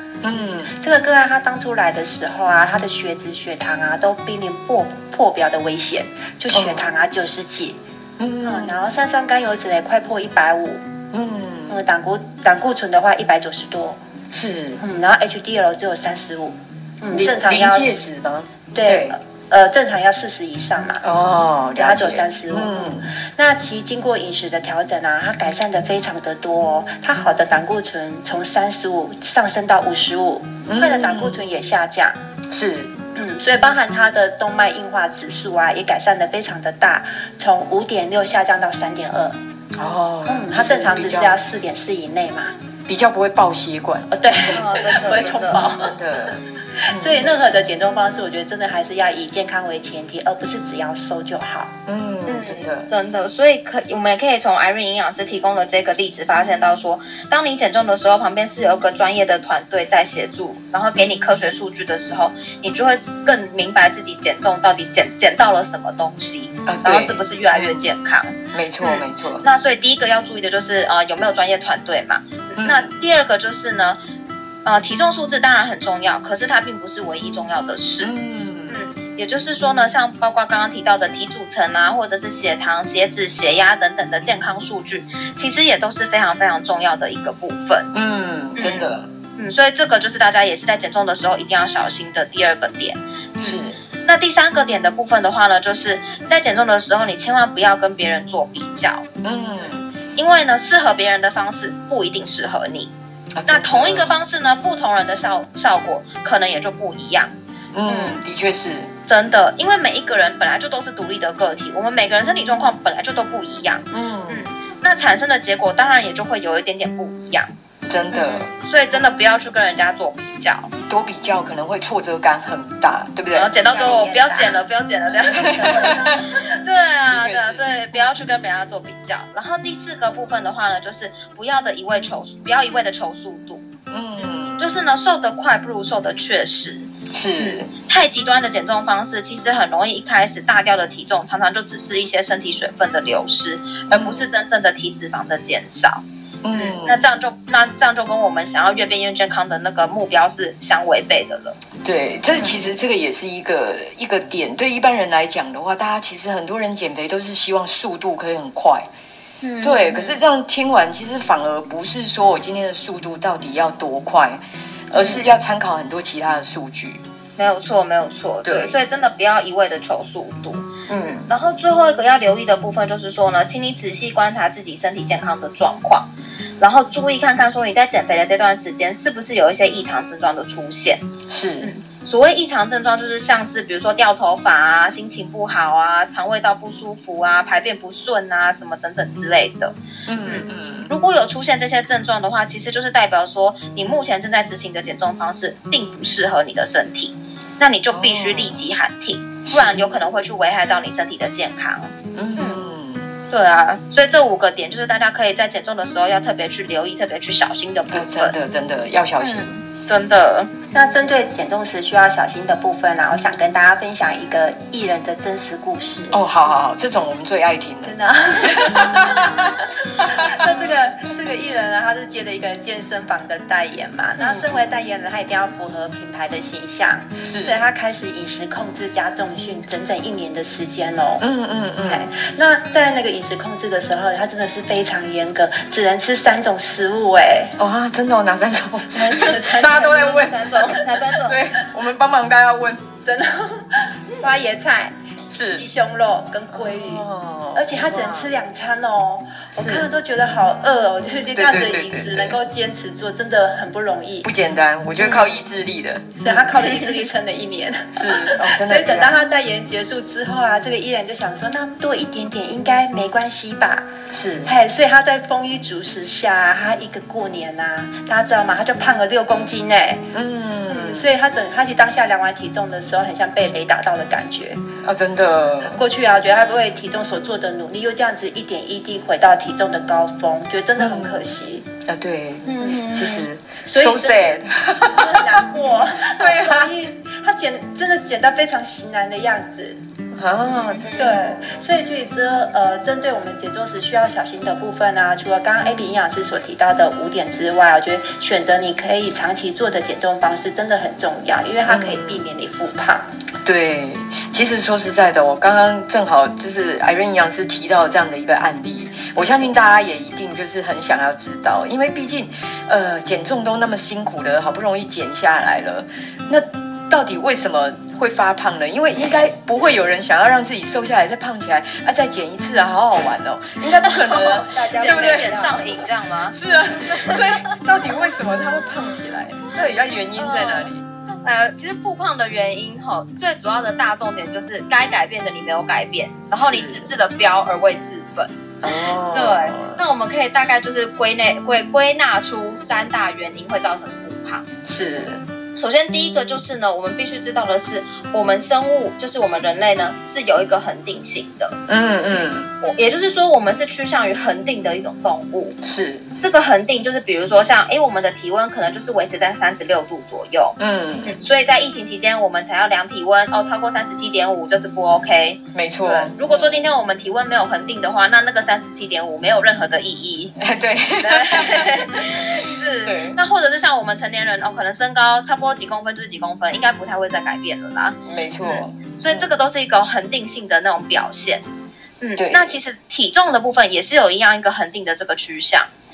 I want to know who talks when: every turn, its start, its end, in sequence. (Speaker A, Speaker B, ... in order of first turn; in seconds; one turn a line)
Speaker A: 0.2-0.7
Speaker B: 0.7-7.8
Speaker A: 6.5-6.9
Speaker A: 8.2-8.8
Speaker B: 8.4-10.8
Speaker A: 11.1-11.8
Speaker B: 11.7-14.0
Speaker A: 14.3-14.8
Speaker B: 14.8-18.0
Speaker A: 17.1-19.2
Speaker B: 18.7-21.0
Speaker A: 21.0-23.1
Speaker B: 21.8-32.2
Speaker A: 30.7-31.4
Speaker A: 32.5-32.9
Speaker B: 33.1-39.4
Speaker A: 39.8-41.4
Speaker B: 40.3-42.5
Speaker A: 42.9-47.2
Speaker B: 44.1-46.0
Speaker C: 44.5-45.6
Speaker B: 46.8-51.7
Speaker A: 51.9-52.9
Speaker C: 52.3-74.0
Speaker A: 66.7-67.8
Speaker A: 68.5-69.5
Speaker A: 72.6-73.0
Speaker C: 74.7-78.1
Speaker A: 78.0-78.8
Speaker C: 78.7-87.9
Speaker A: 87.9-89.1
Speaker C: 88.6-99.0
Speaker A: 93.4-93.8
Speaker A: 99.2-99.8
Speaker C: 100.2-102.9
Speaker A: 103.4-104.2
Speaker C: 103.5-107.3
Speaker A: 107.7-108.9
Speaker C: 107.9-108.2
Speaker C: 109.1-117.5
Speaker A: 113.9-114.5
Speaker A: 117.9-118.5
Speaker C: 118.1-120.7
Speaker A: 120.9-123.5
Speaker C: 123.3-133.7
Speaker B: 123.6-124.6
Speaker B: 125.1-126.2
Speaker A: 125.3-126.2
Speaker A: 127.1-128.1
Speaker A: 133.9-134.6
Speaker C: 134.6-146.0
Speaker A: 137.1-137.7
Speaker A: 143.9-144.3
Speaker A: 146.4-147.1
Speaker C: 146.5-151.6
Speaker A: 151.8-158.9
Speaker C: 152.3-152.7
Speaker C: 159.4-160.2
Speaker A: 159.6-167.0
Speaker C: 165.0-165.2
Speaker C: 167.4-170.7
Speaker A: 168.4-168.8
Speaker A: 170.9-171.3
Speaker C: 171.3-176.1
Speaker C: 176.6-181.1
Speaker A: 181.3-181.7
Speaker C: 181.6-189.7
Speaker A: 190.1-190.9
Speaker C: 190.2-202.6
Speaker A: 197.9-198.6
Speaker A: 199.4-200.0
Speaker A: 202.1-203.1
Speaker C: 203.3-208.3
Speaker A: 207.9-209.5
Speaker C: 209.2-210.6
Speaker B: 210.7-216.2
Speaker A: 216.1-220.5
Speaker B: 217.8-231.2
Speaker A: 227.2-227.6
Speaker A: 231.2-232.1
Speaker B: 231.8-237.6
Speaker A: 237.6-242.8
Speaker B: 238.9-241.0
Speaker C: 240.7-241.4
Speaker B: 243.0-244.9
Speaker A: 245.3-245.6
Speaker B: 245.5-247.0
Speaker A: 246.5-248.3
Speaker B: 247.6-254.3
Speaker A: 249.6-249.9
Speaker A: 251.3-252.4
Speaker A: 254.2-256.5
Speaker C: 255.0-255.3
Speaker B: 256.2-263.9
Speaker A: 257.9-259.1
Speaker A: 264.1-264.5
Speaker B: 264.5-270.1
Speaker A: 270.1-271.1
Speaker B: 270.7-274.6
Speaker A: 274.8-275.8
Speaker B: 275.7-281.7
Speaker A: 280.8-281.2
Speaker A: 281.9-285.4
Speaker C: 282.5-283.3
Speaker B: 283.7-289.8
Speaker A: 286.0-286.7
Speaker A: 290.1-291.6
Speaker C: 290.6-290.9
Speaker B: 291.0-303.1
Speaker A: 301.7-302.3
Speaker A: 303.4-325.3
Speaker C: 323.9-327.3
Speaker B: 324.1-325.8
Speaker A: 326.3-330.8
Speaker C: 330.1-330.7
Speaker C: 331.2-344.5
Speaker A: 336.3-336.9
Speaker A: 338.6-339.8
Speaker A: 344.6-345.2
Speaker C: 345.6-351.6
Speaker A: 351.7-352.5
Speaker C: 352.6-355.6
Speaker A: 355.6-356.0
Speaker C: 356.2-370.4
Speaker A: 360.6-361.2
Speaker A: 365.5-366.7
Speaker A: 370.4-373.2
Speaker C: 371.0-381.4
Speaker A: 378.1-379.3
Speaker C: 382.0-385.7
Speaker A: 382.2-382.6